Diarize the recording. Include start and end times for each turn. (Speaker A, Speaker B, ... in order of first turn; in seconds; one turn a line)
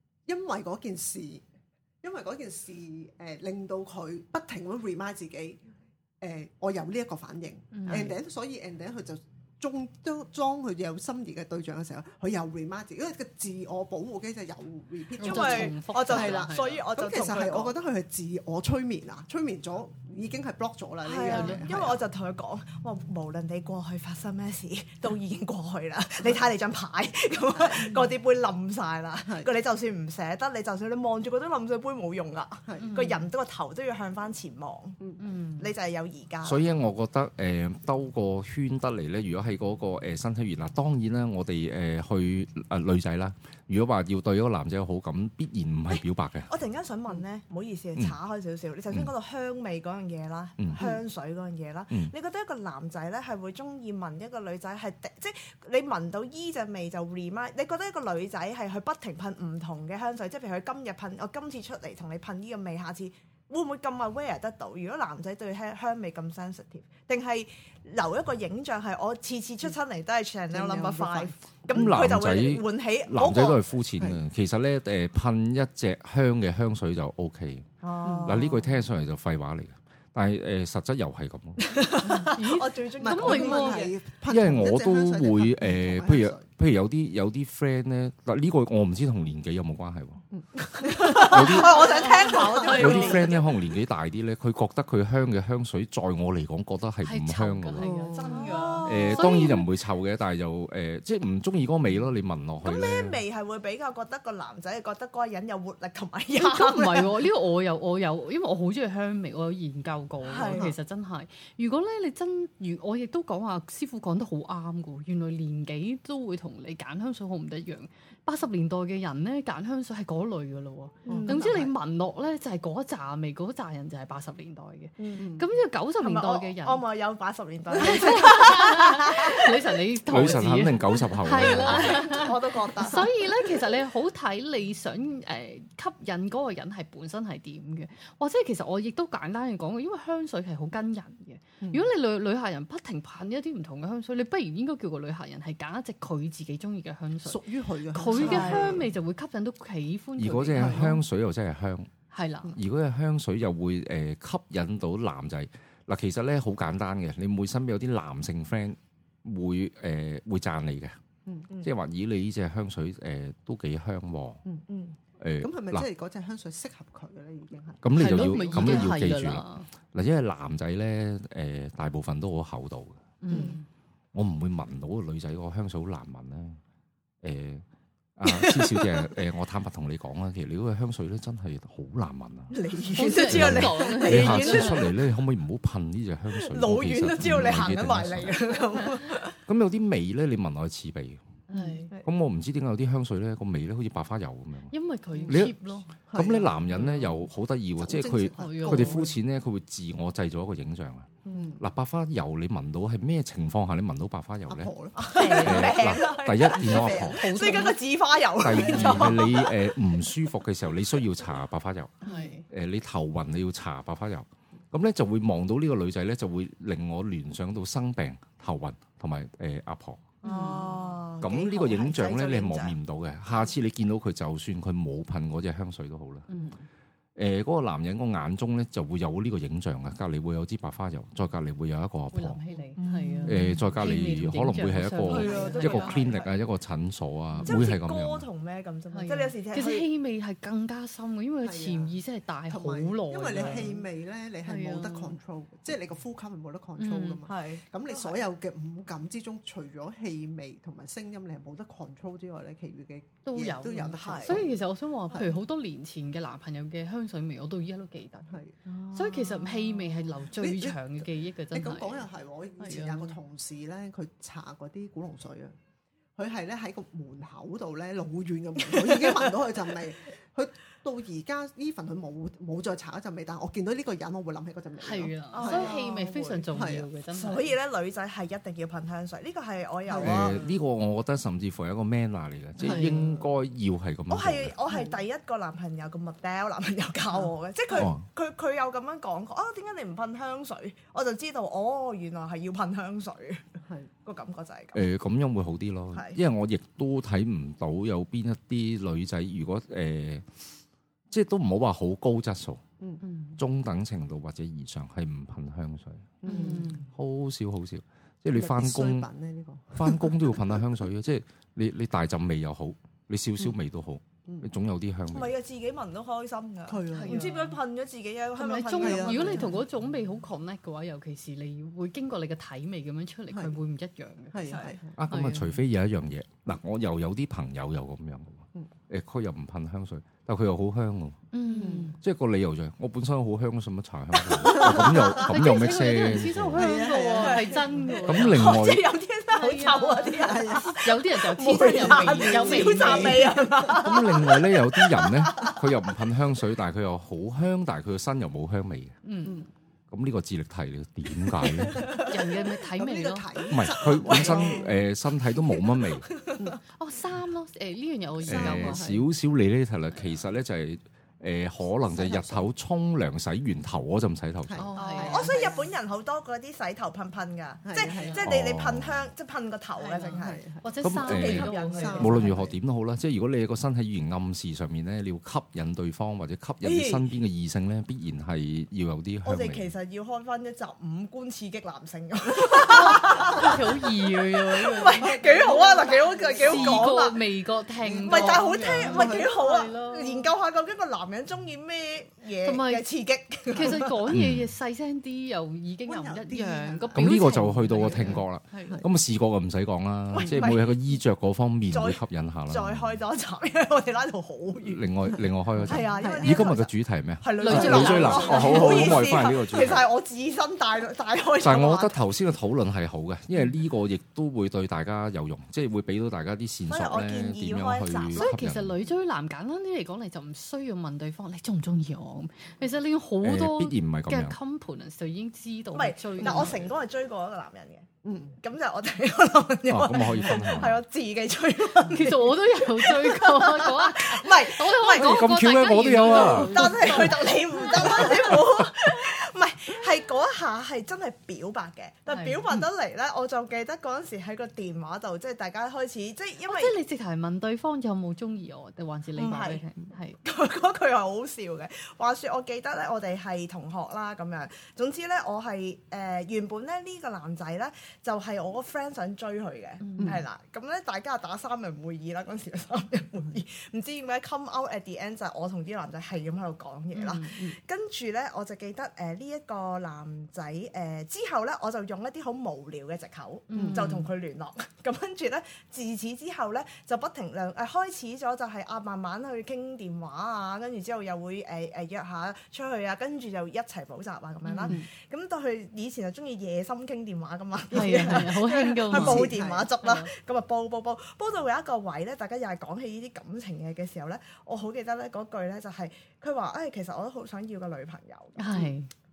Speaker A: 0.3-1.4
Speaker A: 2.0-5.6
Speaker A: 6.2-22.0
Speaker B: 7.7-8.2
Speaker B: 15.2-16.9
Speaker C: 15.2-17.8
Speaker C: 21.1-35.0
Speaker B: 21.2-21.7
Speaker A: 27.6-28.1
Speaker A: 32.7-33.0
Speaker B: 32.8-33.3
Speaker B: 35.2-35.7
Speaker C: 35.6-36.6
Speaker D: 36.4-46.5
Speaker C: 45.9-73.7
Speaker A: 70.5-71.9
Speaker D: 71.7-77.7
Speaker C: 77.8-78.7
Speaker A: 78.0-78.5
Speaker D: 78.2-81.6
Speaker C: 81.6-84.0
Speaker A: 82.0-82.4
Speaker B: 82.1-83.9
Speaker A: 83.0-86.5
Speaker D: 84.3-90.2
Speaker A: 90.3-93.3
Speaker C: 90.6-93.5
Speaker D: 91.1-97.9
Speaker B: 92.6-92.9
Speaker B: 97.0-99.7
Speaker A: 97.8-99.1
Speaker C: 98.2-99.5
Speaker D: 98.8-103.2
Speaker C: 102.6-107.2
Speaker B: 106.4-126.8
Speaker C: 110.2-110.7
Speaker A: 110.5-110.8
Speaker A: 121.1-121.7
Speaker C: 121.1-121.7
Speaker C: 125.0-125.3
Speaker A: 125.2-125.5
Speaker C: 126.0-129.8
Speaker B: 127.8-151.0
Speaker A: 127.8-128.2
Speaker D: 130.1-132.1
Speaker C: 131.4-133.5
Speaker A: 141.6-141.9
Speaker A: 147.2-148.9
Speaker C: 148.1-148.8
Speaker D: 150.2-151.9
Speaker A: 150.6-151.0
Speaker B: 152.1-152.6
Speaker D: 152.6-161.0
Speaker D: 161.6-164.4
Speaker C: 164.7-165.0
Speaker D: 165.2-165.9
Speaker A: 165.4-169.0
Speaker D: 167.8-173.0
Speaker B: 167.9-169.7
Speaker B: 173.2-173.7
Speaker C: 173.3-173.6
Speaker D: 174.1-176.6
Speaker D: 177.2-177.6
Speaker D: 178.2-182.5
Speaker C: 178.3-179.2
Speaker C: 182.5-185.0
Speaker B: 182.9-184.9
Speaker D: 183.2-188.4
Speaker C: 186.3-189.4
Speaker D: 189.5-191.2
Speaker B: 191.5-191.9
Speaker D: 192.0-194.7
Speaker B: 194.7-195.9
Speaker A: 195.2-195.5
Speaker D: 195.3-195.6
Speaker A: 196.1-197.2
Speaker D: 196.1-204.7
Speaker A: 197.8-199.1
Speaker B: 198.4-199.1
Speaker A: 201.3-201.6
Speaker A: 204.5-205.8
Speaker C: 205.0-209.7
Speaker B: 205.1-206.0
Speaker D: 205.4-207.3
Speaker B: 206.5-207.8
Speaker A: 206.6-207.2
Speaker D: 208.4-212.0
Speaker A: 208.7-209.1
Speaker B: 208.7-209.1
Speaker B: 212.0-212.4
Speaker D: 212.5-220.1
Speaker B: 220.2-220.9
Speaker C: 220.2-222.8
Speaker D: 221.2-226.3
Speaker B: 226.3-226.6
Speaker D: 227.2-232.4
Speaker B: 232.1-236.0
Speaker C: 232.8-233.4
Speaker D: 233.3-238.3
Speaker C: 235.1-236.3
Speaker A: 235.1-236.0
Speaker C: 237.4-239.9
Speaker B: 238.9-243.8
Speaker A: 241.4-242.0
Speaker A: 242.5-254.6
Speaker B: 244.4-245.2
Speaker B: 246.8-247.2
Speaker C: 247.3-248.2
Speaker B: 253.2-262.1
Speaker C: 254.0-254.4
Speaker A: 255.1-255.4
Speaker A: 258.3-258.6
Speaker A: 260.3-265.6
Speaker B: 262.6-263.2
Speaker A: 266.2-275.8
Speaker C: 268.7-269.3
Speaker B: 274.8-277.6
Speaker C: 275.3-280.4
Speaker A: 276.5-276.9
Speaker A: 279.9-280.4
Speaker D: 280.0-284.5
Speaker A: 282.6-283.2
Speaker B: 282.6-283.0
Speaker C: 284.1-294.9
Speaker A: 284.7-284.9
Speaker D: 287.7-288.1
Speaker A: 293.6-293.9
Speaker D: 294.7-300.3
Speaker C: 295.9-296.2
Speaker D: 301.1-302.6
Speaker B: 303.0-303.4
Speaker D: 303.4-309.1
Speaker A: 306.2-306.9
Speaker B: 306.2-306.9
Speaker A: 308.3-310.6
Speaker D: 309.7-315.3
Speaker C: 315.1-319.6
Speaker A: 316.7-317.3
Speaker B: 316.9-317.6
Speaker B: 318.4-325.6
Speaker A: 318.8-319.6
Speaker A: 323.3-323.6
Speaker A: 324.3-324.9
Speaker C: 324.5-324.8
Speaker D: 325.0-331.2
Speaker B: 331.3-332.0
Speaker A: 331.5-332.0
Speaker D: 332.0-336.7
Speaker C: 334.4-334.8
Speaker A: 334.5-335.0
Speaker B: 335.1-338.6
Speaker A: 336.5-338.2
Speaker C: 337.2-345.7
Speaker D: 338.1-338.9
Speaker B: 339.3-343.4
Speaker A: 340.0-340.9
Speaker A: 341.7-343.9
Speaker D: 343.7-348.9
Speaker B: 349.0-349.4
Speaker A: 349.2-349.5
Speaker D: 349.9-351.9
Speaker C: 351.7-352.1
Speaker A: 351.8-354.7
Speaker B: 351.9-353.5
Speaker D: 353.5-356.1
Speaker C: 354.1-354.7
Speaker C: 355.8-356.5
Speaker B: 356.8-358.9
Speaker A: 358.2-359.1
Speaker D: 358.3-364.7
Speaker A: 361.9-362.5
Speaker A: 364.5-365.6
Speaker B: 364.6-365.6
Speaker C: 364.8-370.4
Speaker A: 367.6-368.3
Speaker B: 367.8-368.2
Speaker D: 368.2-369.1
Speaker B: 369.8-372.3
Speaker A: 370.1-372.6
Speaker D: 370.8-379.7
Speaker C: 371.0-372.2
Speaker C: 376.6-377.1
Speaker C: 379.2-383.6
Speaker B: 382.6-390.3
Speaker C: 384.5-387.2
Speaker A: 385.0-386.9
Speaker A: 387.8-389.4
Speaker C: 388.1-394.1
Speaker B: 392.4-392.9
Speaker B: 393.5-398.8
Speaker D: 394.1-394.5
Speaker A: 395.9-398.9
Speaker D: 396.9-403.0
Speaker C: 400.1-400.7
Speaker C: 401.7-404.9
Speaker D: 404.6-409.9
Speaker C: 405.6-412.0
Speaker A: 405.7-406.5
Speaker B: 407.4-409.0
Speaker A: 407.5-408.6
Speaker D: 411.4-418.8
Speaker C: 416.7-418.4
Speaker B: 418.1-426.6
Speaker D: 423.2-424.4
Speaker C: 425.7-435.3
Speaker A: 426.2-426.6
Speaker A: 428.0-428.4
Speaker D: 429.7-430.8
Speaker B: 431.8-438.4
Speaker D: 434.9-437.0
Speaker C: 435.9-446.7
Speaker B: 442.1-442.5
Speaker B: 446.5-450.2
Speaker C: 449.2-449.7
Speaker C: 450.2-498.7
Speaker B: 459.8-460.2
Speaker A: 460.0-460.2
Speaker B: 466.9-467.5
Speaker B: 473.5-474.1
Speaker A: 473.5-474.0
Speaker B: 484.4-484.8
Speaker A: 487.7-489.7
Speaker B: 487.7-490.1
Speaker B: 498.4-498.9